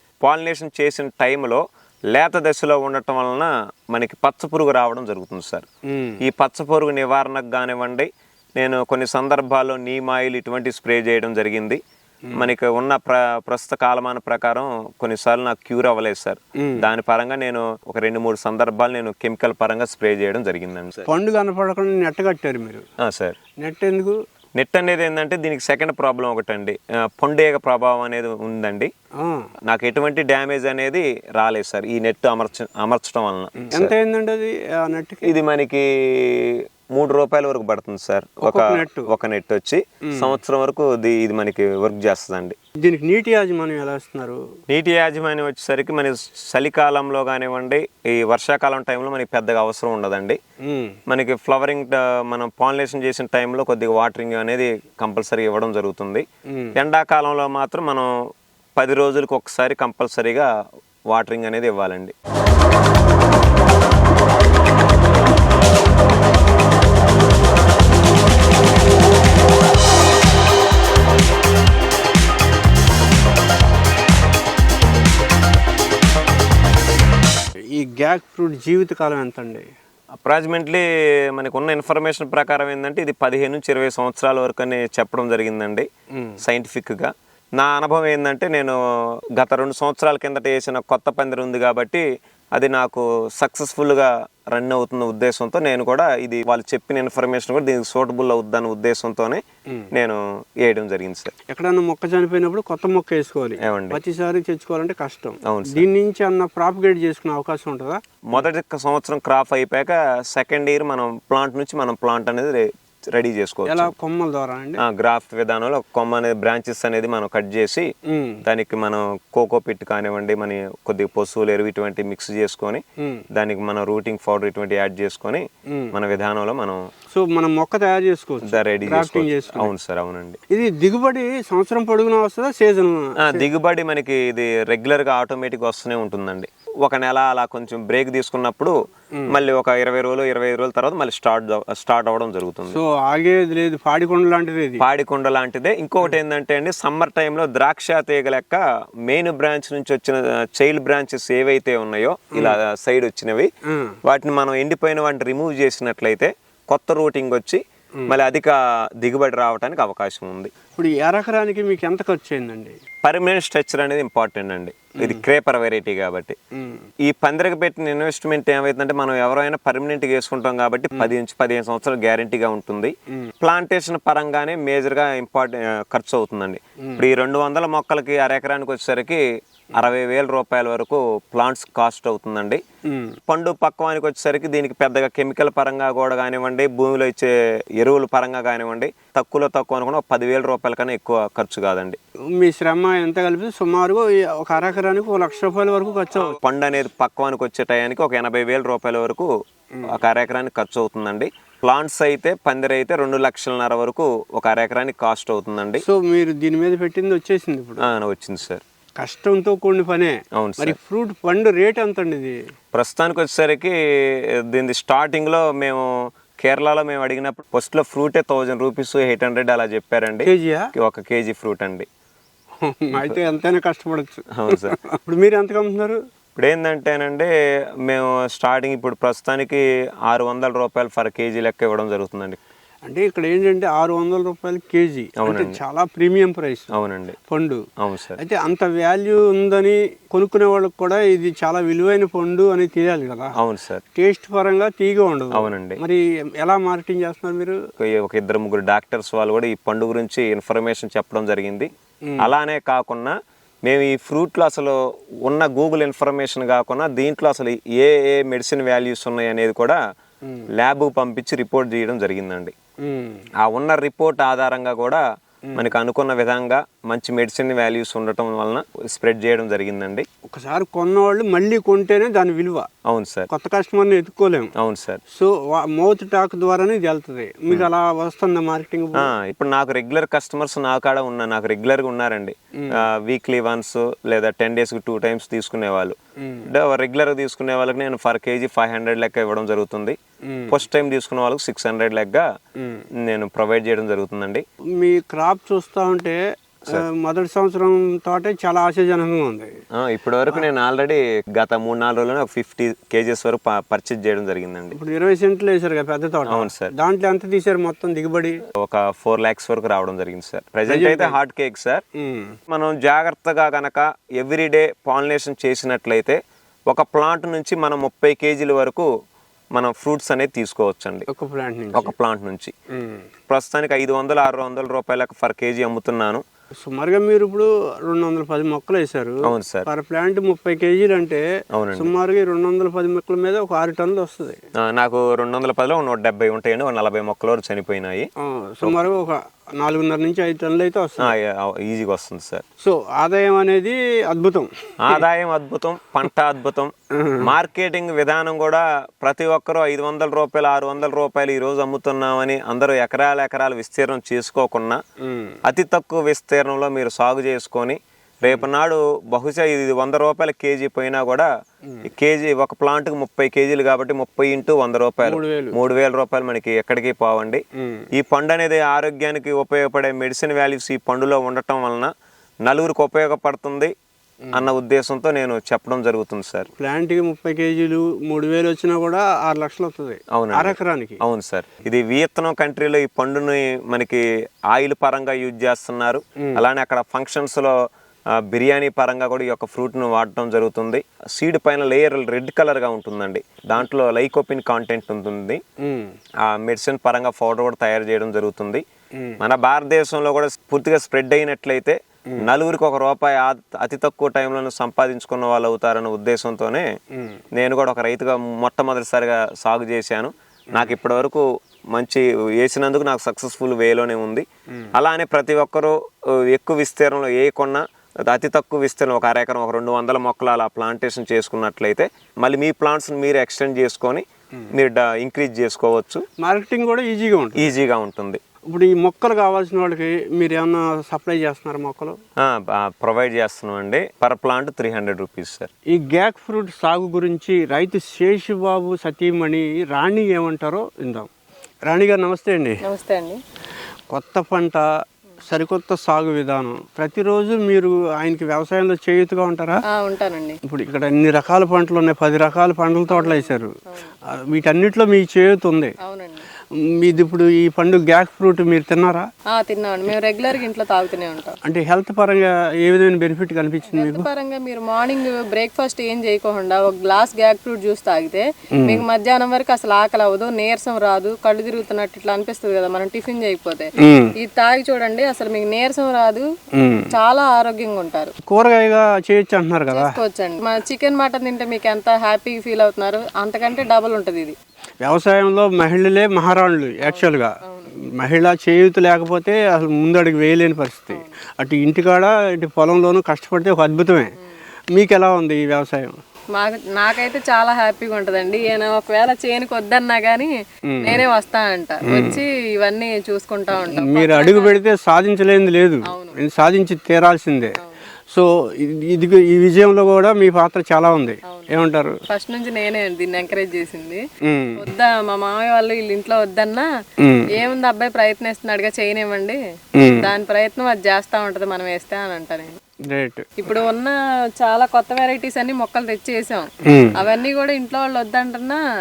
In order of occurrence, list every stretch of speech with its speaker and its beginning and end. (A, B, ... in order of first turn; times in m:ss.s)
0:00.2-0:05.7 A
0:05.9-0:06.2 B
0:06.2-0:11.8 A
0:12.4-0:21.1 A
0:21.1-0:22.8 B
0:23.0-0:23.4 A
0:23.6-0:24.2 B
0:24.6-0:28.9 A
0:29.2-0:29.5 B
0:29.7-0:33.9 A
0:33.6-0:35.3 B
0:35.2-0:42.6 A
0:38.4-0:39.1 B
0:40.0-0:40.4 B
0:42.8-0:44.4 B
0:44.7-0:50.4 A
0:50.6-0:51.0 B
0:51.1-0:58.2 A
0:56.5-0:56.8 B
0:58.8-1:00.5 A
1:01.1-1:02.1 A
1:17.7-1:19.7 B
1:20.2-1:25.9 A
1:26.1-1:26.4 B
1:26.4-1:28.8 A
1:29.4-1:41.3 A
1:41.5-1:48.4 B
1:43.6-1:44.0 A
1:45.4-1:45.8 A
1:48.3-1:53.9 A
1:53.7-1:54.8 B
1:54.8-1:57.9 A
1:58.1-1:58.4 B
1:58.4-2:06.8 A
2:03.0-2:03.2 B
2:05.7-2:06.0 B
2:07.1-2:09.7 B
2:08.4-2:10.4 A
2:10.5-2:13.5 B
2:13.2-2:22.8 A
2:22.7-2:24.9 B
2:24.8-2:33.5 A
2:33.6-2:34.0 B
2:34.0-2:40.5 A
2:40.8-2:42.8 B
2:43.0-2:46.4 A
2:45.0-2:45.2 B
2:46.5-2:46.9 B
2:47.0-3:02.6 A
3:02.8-3:03.2 B
3:03.3-3:12.0 A
3:12.3-3:16.4 B
3:16.2-3:19.3 A
3:19.8-3:25.8 A
3:25.8-3:27.9 B
3:27.8-3:28.6 A
3:29.0-3:32.4 B
3:30.3-3:30.8 A
3:32.7-3:41.9 A
3:40.2-3:40.7 B
3:42.6-3:46.0 B
3:44.3-3:44.8 A
3:46.4-3:47.3 A
3:47.8-3:52.4 A
3:52.9-3:56.7 B
3:55.2-3:55.6 A
3:56.7-3:57.2 A
3:57.3-4:03.3 B
3:57.8-3:58.2 A
4:03.4-4:03.8 A
4:04.0-4:07.6 B
4:05.3-4:05.8 A
4:07.8-4:19.8 A
4:12.0-4:12.3 B
4:20.6-4:22.5 A
4:22.8-4:23.2 B
4:23.4-4:25.0 A
4:25.5-4:30.1 A
4:30.3-4:32.7 B
4:32.8-4:33.3 A
4:33.3-4:34.5 B
4:34.6-4:35.0 A
4:35.1-4:39.1 B
4:39.0-4:50.0 A
4:42.6-4:42.8 B
4:46.2-4:46.5 B
4:50.2-4:50.6 B
4:50.5-4:52.3 A
4:52.6-4:52.9 B
4:53.0-4:54.4 A
4:54.8-4:59.6 B
4:59.7-5:04.8 A
5:04.7-5:08.4 B
5:06.3-5:06.7 A
5:08.6-5:11.8 A
5:10.7-5:11.2 B
5:12.0-5:12.4 B
5:12.5-5:18.9 A
5:19.5-5:21.1 A
5:21.1-5:21.9 B
5:21.7-5:22.5 A
5:22.7-5:23.1 B
5:23.3-5:26.2 A
5:26.6-5:34.4 B
5:29.2-5:29.7 A
5:31.5-5:31.9 A
5:34.6-5:38.1 A
5:38.2-5:41.1 B
5:41.0-5:42.4 A
5:42.6-5:45.0 B
5:44.8-5:54.8 A
5:46.9-5:47.3 B
5:55.0-5:55.4 B
5:55.5-6:01.3 A
6:01.8-6:11.9 A
6:05.0-6:05.6 B
6:07.6-6:07.9 B
6:12.4-6:13.7 A
6:14.3-6:16.5 A
6:16.6-6:21.0 B
6:20.1-6:27.6 A
6:28.1-6:35.4 A
6:35.6-6:36.0 B
6:36.2-6:38.6 A
6:39.2-6:46.7 A
6:46.9-6:47.2 B
6:47.3-7:06.1 A
7:06.2-7:07.5 B
7:07.4-7:08.2 A
7:08.5-7:12.0 B
7:12.2-7:15.5 A
7:15.7-7:21.1 B
7:21.7-7:22.6 B
7:22.6-7:23.2 C
7:23.9-7:24.7 B
7:25.2-7:29.6 B
7:29.7-7:30.4 C
7:30.4-7:33.5 B
7:32.9-7:33.9 C
7:34.1-7:35.7 B
7:35.8-7:36.3 C
7:36.8-7:39.1 B
7:39.3-7:41.4 C
7:41.4-7:44.1 B
7:43.7-7:56.3 C
7:48.6-7:48.8 B
7:53.8-7:54.1 B
7:56.6-7:56.9 B
7:56.9-7:58.1 C
7:58.3-8:00.0 B
7:59.7-8:04.4 C
8:04.8-8:14.1 B
8:06.8-8:07.7 C
8:14.7-8:16.0 B
8:16.3-8:24.6 C
8:20.7-8:21.0 B
8:21.8-8:22.2 B
8:23.7-8:27.6 B
8:25.9-8:26.2 C
8:27.6-8:27.9 C
8:28.1-8:32.0 B
8:31.3-8:34.0 C
8:34.2-8:34.7 B
8:34.6-8:36.7 C
8:37.0-8:37.3 B
8:37.3-8:39.4 C
8:39.8-8:40.1 B
8:39.9-8:42.6 C
8:42.8-8:43.5 B
8:43.4-8:48.6 C
8:46.6-8:47.0 B